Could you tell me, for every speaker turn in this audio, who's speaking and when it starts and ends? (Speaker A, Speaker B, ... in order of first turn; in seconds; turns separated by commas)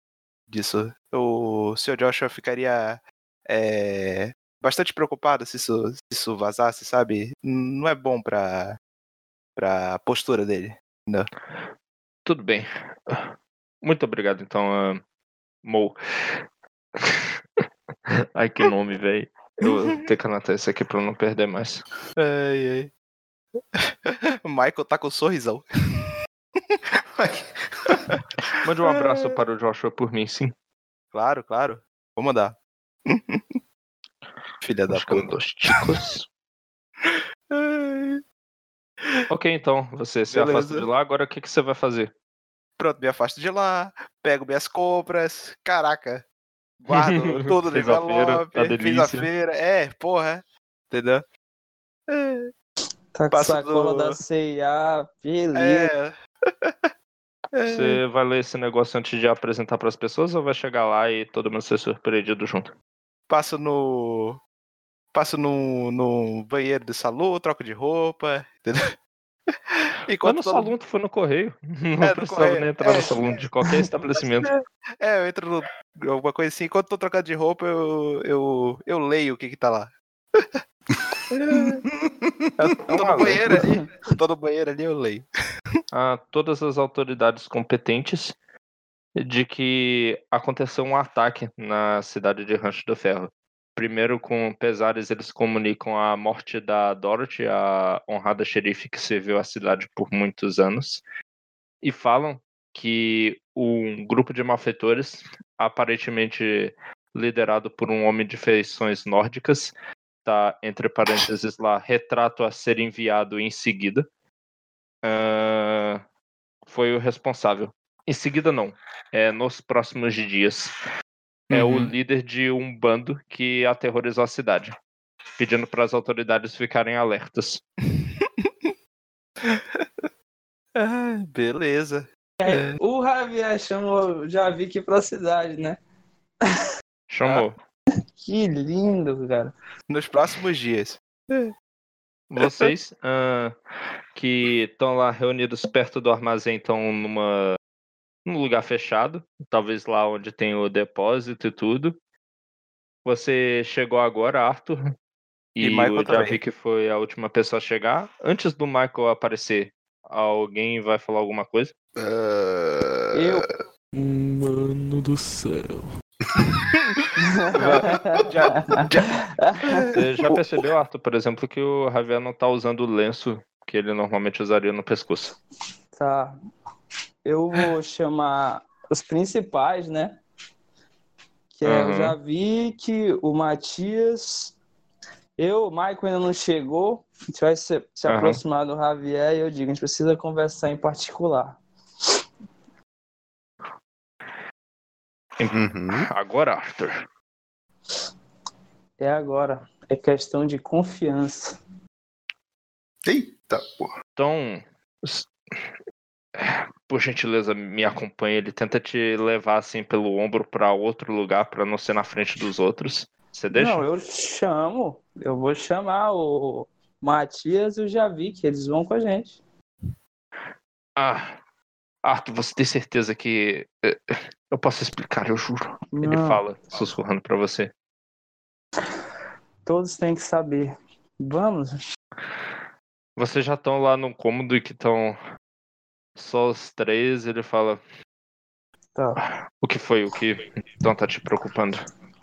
Speaker A: 0.5-8.8, Speaker A: 9.6-11.3, Speaker B: 12.2-15.0, Speaker B: 15.6-16.4, Speaker B: 17.0-17.3, Speaker B: 18.1-21.8, Speaker A: 19.6-19.9, Speaker A: 22.2-22.9, Speaker A: 23.7-26.8, Speaker C: 27.2-28.2, Speaker B: 28.6-30.5, Speaker A: 28.9-29.3, Speaker A: 31.1-33.6, Speaker A: 34.6-35.3, Speaker B: 34.9-36.2, Speaker A: 37.0-38.2, Speaker B: 39.3-42.1, Speaker A: 40.3-40.9, Speaker A: 42.8-46.2, Speaker A: 46.8-51.2, Speaker B: 46.9-49.3, Speaker A: 52.1-52.5, Speaker D: 53.1-55.9, Speaker A: 53.3-54.2, Speaker A: 55.5-56.9, Speaker A: 57.5-58.0, Speaker B: 57.7-62.7, Speaker A: 63.3-64.4, Speaker A: 65.1-69.0, Speaker A: 69.5-70.7, Speaker B: 70.2-74.5, Speaker A: 72.0-73.2, Speaker A: 74.4-80.6, Speaker A: 81.3-81.8, Speaker C: 81.5-82.5, Speaker A: 82.8-85.8, Speaker D: 82.9-83.9, Speaker B: 83.1-83.6, Speaker B: 85.9-88.3, Speaker B: 89.2-101.0, Speaker B: 101.8-109.7, Speaker B: 110.2-114.0, Speaker B: 115.0-116.0, Speaker B: 116.7-120.7, Speaker A: 121.5-121.9, Speaker B: 121.5-124.7, Speaker B: 125.4-127.6, Speaker A: 127.9-128.7, Speaker A: 129.4-130.1, Speaker A: 130.7-132.8, Speaker D: 132.4-135.8, Speaker B: 137.1-137.5, Speaker D: 138.2-139.5, Speaker A: 139.9-141.5, Speaker B: 142.3-143.5, Speaker A: 142.4-142.7, Speaker B: 144.2-147.6, Speaker B: 148.2-151.9, Speaker B: 153.0-154.9, Speaker B: 155.6-161.7, Speaker A: 155.6-156.4, Speaker C: 161.9-163.4, Speaker D: 163.1-163.4, Speaker E: 163.9-165.9, Speaker A: 166.7-167.0, Speaker D: 167.2-168.7, Speaker A: 167.5-169.9, Speaker C: 167.6-168.5, Speaker D: 169.4-169.8, Speaker B: 169.9-175.3, Speaker D: 175.9-176.3, Speaker D: 177.2-180.2, Speaker D: 181.5-184.5, Speaker B: 181.6-182.2, Speaker D: 185.4-191.6, Speaker B: 188.1-188.4, Speaker B: 195.4-197.0, Speaker C: 195.5-196.1, Speaker D: 199.0-201.6, Speaker C: 203.0-203.9, Speaker B: 204.2-205.3, Speaker B: 206.4-213.8, Speaker D: 213.5-219.4, Speaker B: 221.0-221.3, Speaker B: 222.0-227.7, Speaker D: 225.9-226.4, Speaker D: 229.7-231.7, Speaker B: 233.2-235.2, Speaker B: 236.2-237.8, Speaker B: 239.6-241.8